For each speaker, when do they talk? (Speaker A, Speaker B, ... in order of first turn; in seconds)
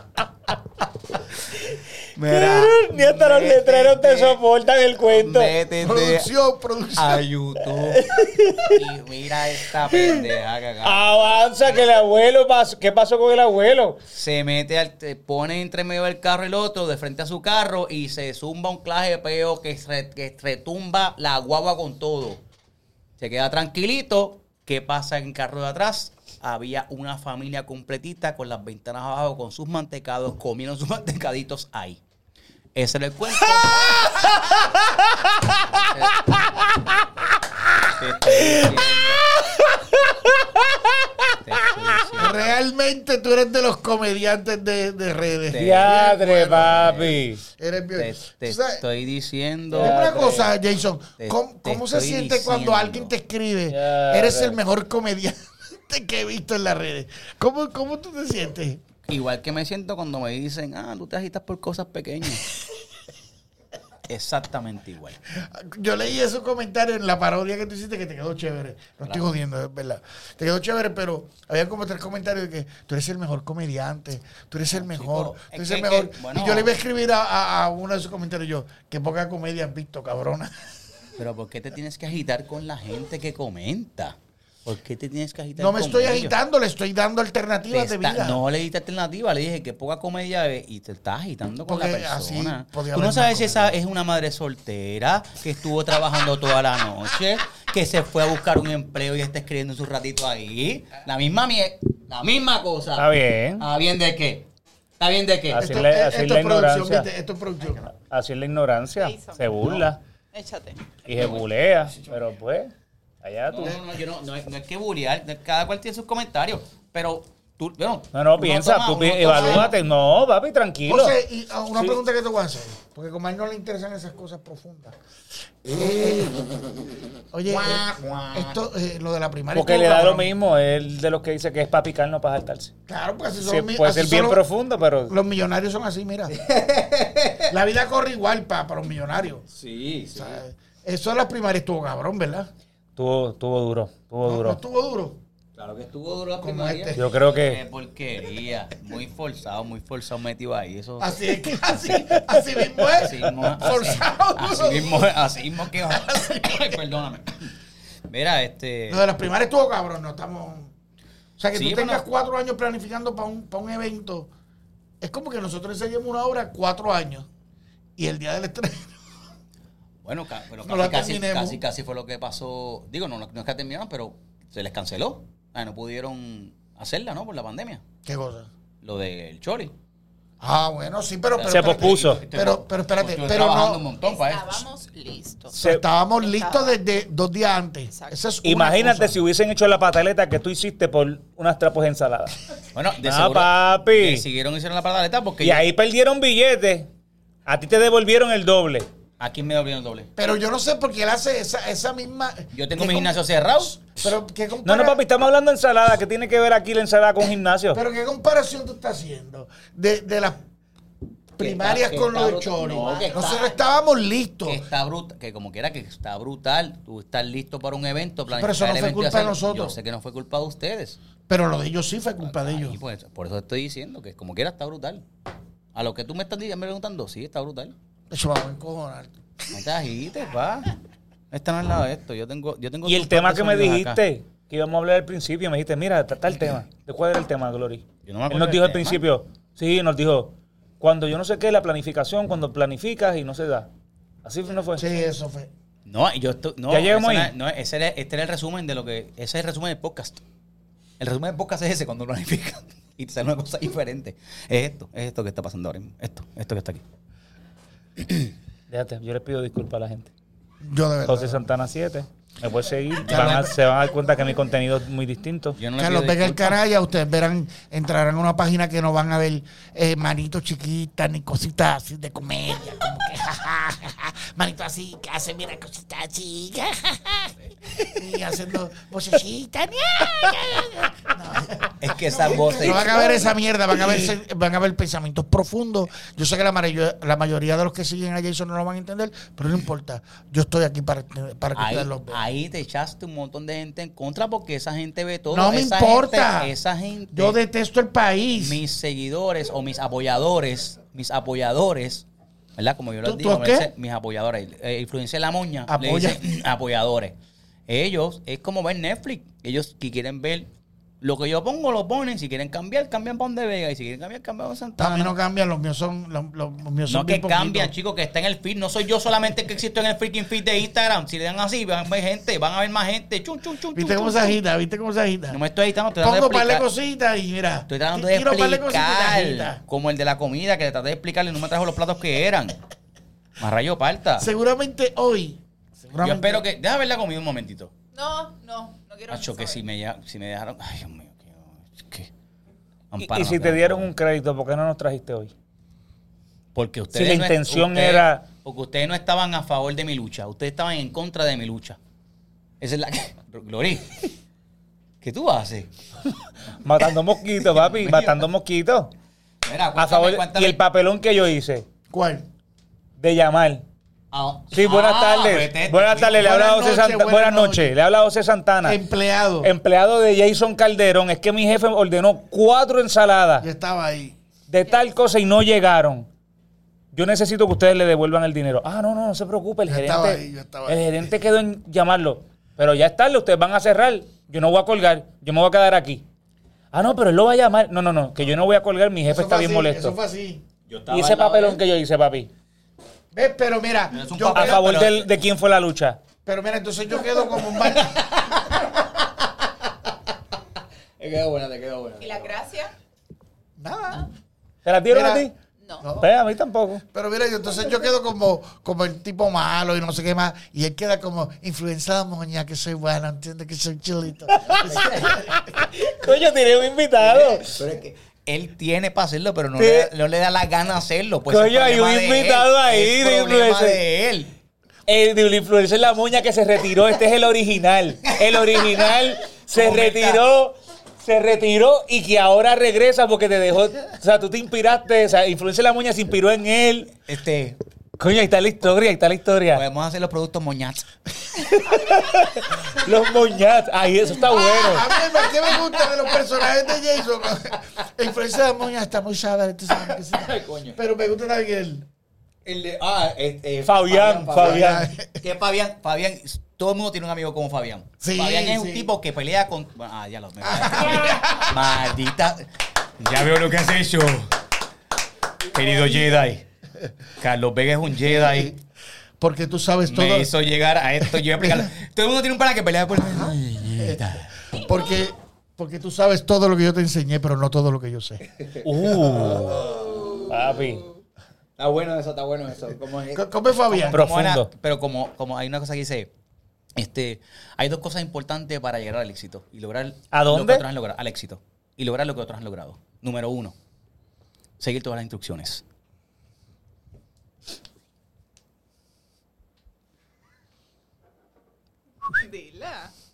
Speaker A: 1.7-5.5, 7.8-8.8, 9.9-10.2, 10.8-14.0, 40.1-40.6, 45.6-47.4, 49.8-50.5, 53.7-54.6, 103.0-103.7, 105.5-107.1, 107.9-110.0, 111.1-112.7, 113.2-113.8, 118.1-121.2, 129.5-132.7, 133.4-135.2, 143.0-144.6, 147.0-147.6, 181.4-182.2, 185.5-185.8, 188.4-192.4, 193.0-194.2, 195.4-196.9, 197.5-198.9, 204.7-207.8, 232.8-243.7, 244.2-244.8, 246.7-247.3, 258.7-260.1, 261.1-265.6, 343.0-345.3, 346.9-348.2, 356.6-358.9, 359.8-361.6, 363.0-363.6, 364.5-368.8, 369.4-373.5, 374.5-376.1, 376.9-386.0, 386.7-390.0, 390.9-392.3, 394.4-396.0, 404.6-405.3, 406.0-406.8, 414.3-417.5, 419.6-419.9, 421.3-423.8, 424.9-436.9, 438.0-439.6, 441.4-444.9, 453.6-454.9, 478.6-479.6, 480.3-480.9, 483.9-484.5, 490.1-490.6
Speaker B: 2.2-4.4, 5.1-6.3, 7.0-8.1, 8.6-11.8, 14.1-22.4, 23.2-32.0, 32.8-34.5, 35.6-36.4, 37.9-39.2, 41.4-42.6, 45.5-46.0, 46.5-47.2, 48.0-50.1, 51.2-53.1, 59.1-62.5, 64.1-65.2, 74.7-76.7, 81.2-86.4, 87.7-104.5, 105.0-105.7, 111.2-112.2, 113.5-119.7, 127.5-128.6, 136.3-137.5, 139.5-140.4, 145.6-152.2, 152.8-157.5, 158.1-159.1, 161.5-162.0, 170.0-177.8, 178.8-179.7, 181.4-184.7, 192.8-195.6, 199.2-200.1, 202.5-203.9, 211.4-213.6, 214.4-221.0, 222.2-225.0, 225.7-227.7, 229.5-230.8, 231.3-234.0, 238.1-239.0, 245.9-250.2, 251.0-256.8, 265.6-266.6, 281.8-283.3, 291.6-297.4, 298.4-302.1, 302.6-307.1, 307.7-310.5, 311.0-315.1, 316.9-324.4, 325.3-326.7, 327.7-332.6, 333.4-334.3, 336.0-337.7, 339.1-342.1, 342.9-343.9, 346.6-351.8, 352.6-354.1, 355.0-355.7, 357.4-358.2, 359.4-360.6, 364.1-366.3, 390.7-391.6, 393.9-395.1, 397.6-399.6, 401.0-402.4, 414.5-415.3, 417.0-424.3, 428.1-428.8, 429.5-430.2, 437.1-437.6, 439.5-440.9, 445.0-446.0, 449.9-450.8, 452.4-462.5, 463.0-464.3, 465.5-466.4, 467.2-468.6, 469.9-474.3, 478.4-480.1, 481.6-486.1, 486.8-493.6, 494.6-495.6
Speaker C: 5.8-7.2, 38.3-39.5, 42.2-47.0, 47.6-48.8, 49.7-58.8, 65.3-80.7, 85.6-88.4, 91.7-93.8, 105.6-107.9, 119.2-119.7, 120.9-125.0, 125.6-126.4, 127.3-130.3, 132.9-134.4, 135.1-136.4, 137.5-139.4, 140.2-142.5, 144.2-145.2, 146.4-147.1, 151.0-156.8, 158.9-160.7, 161.4-164.3, 165.0-167.3, 168.0-169.0, 170.6-171.6, 178.1-178.5, 180.4-183.9, 185.5-189.2, 200.2-205.0, 207.7-210.4, 211.4-214.7, 218.3-219.8, 221.3-222.8, 228.1-229.5, 244.8-245.5, 260.6-261.5, 263.1-263.6, 265.8-292.2, 295.3-296.5, 297.1-298.6, 303.0-303.7, 305.7-306.2, 314.8-317.7, 323.7-325.4, 326.0-329.6, 334.2-336.4, 361.9-362.3, 366.1-367.8, 368.6-369.5, 373.4-374.2, 379.7-381.0, 389.1-390.4, 393.1-394.8, 396.2-398.0, 403.6-404.1, 404.9-405.3, 405.8-406.1, 406.9-415.5, 444.3-451.9, 454.4-455.1, 458.0-458.9, 460.5-461.5, 468.0-468.5, 469.2-470.3, 471.2-471.7, 473.2-474.0, 474.5-478.2, 483.1-484.1
Speaker D: 109.0-109.6, 110.3-110.8, 184.0-185.6, 186.2-186.8, 187.9-188.2, 212.8-213.6, 337.9-339.6, 402.0-402.7, 502.1-502.9